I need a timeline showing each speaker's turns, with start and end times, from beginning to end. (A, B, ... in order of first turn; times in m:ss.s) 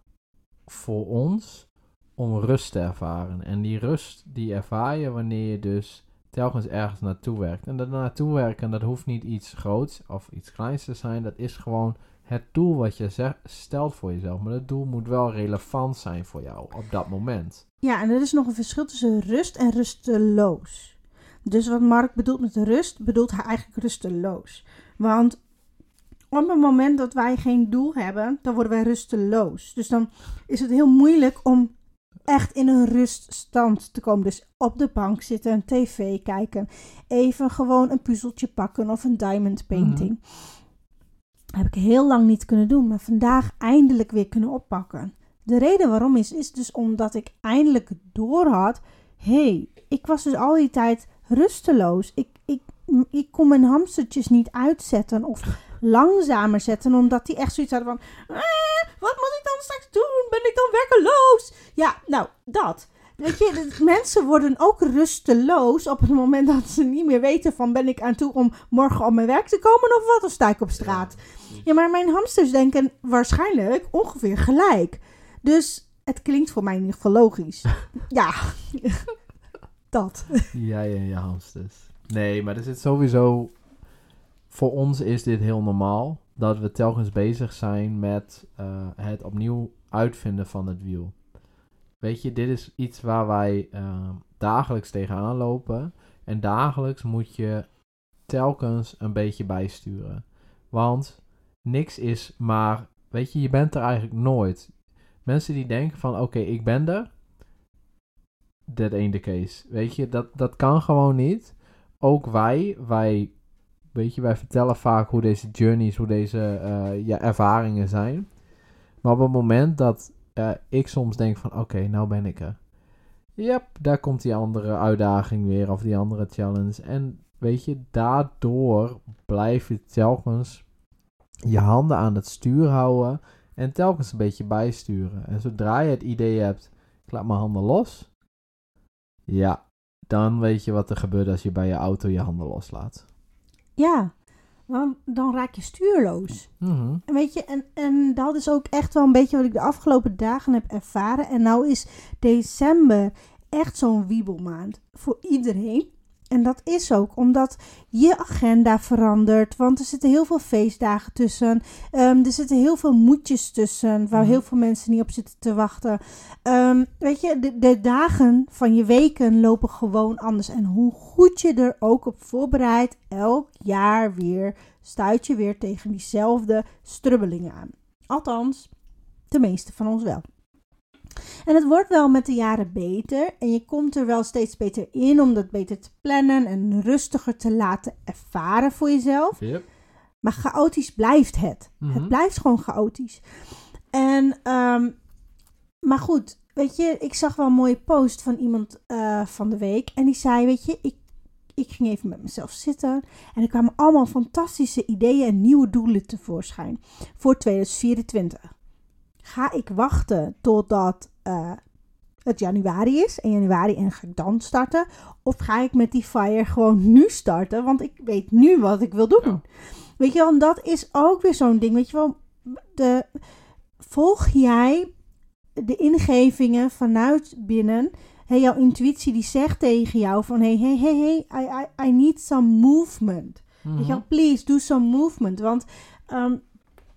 0:00.7-0:17.6 A
0:17.8-0:25.4 B
0:26.3-0:31.7 B
0:32.3-0:40.2 B
0:39.7-0:40.1 A
0:41.6-1:19.1 B
1:10.8-1:11.6 A
1:19.9-1:20.5 B
1:20.5-1:23.6 A
1:24.5-1:31.2 A
1:32.0-1:37.7 A
1:38.3-1:44.7 A
1:45.2-1:47.1 A
1:48.7-1:53.3 A
1:53.9-1:58.3 A
1:59.0-2:02.6 A
2:03.4-2:10.6 A
2:11.4-2:18.1 A
2:19.3-2:23.0 A
2:23.8-2:24.1 B
2:24.7-2:26.5 B
2:26.6-2:27.0 A
2:27.1-2:58.7 B
2:44.1-2:44.4 A
2:59.3-3:00.2 B
3:01.4-3:09.4 B
3:09.4-3:09.6 A
3:10.2-3:13.2 B
3:11.8-3:12.2 A
3:13.9-3:14.9 B
3:15.8-3:21.0 B
3:21.6-3:28.5 B
3:29.2-3:31.6 B
3:32.3-3:39.4 B
3:40.0-3:43.1 B
3:43.8-3:44.9 B
3:45.6-3:56.4 B
3:53.6-3:54.0 A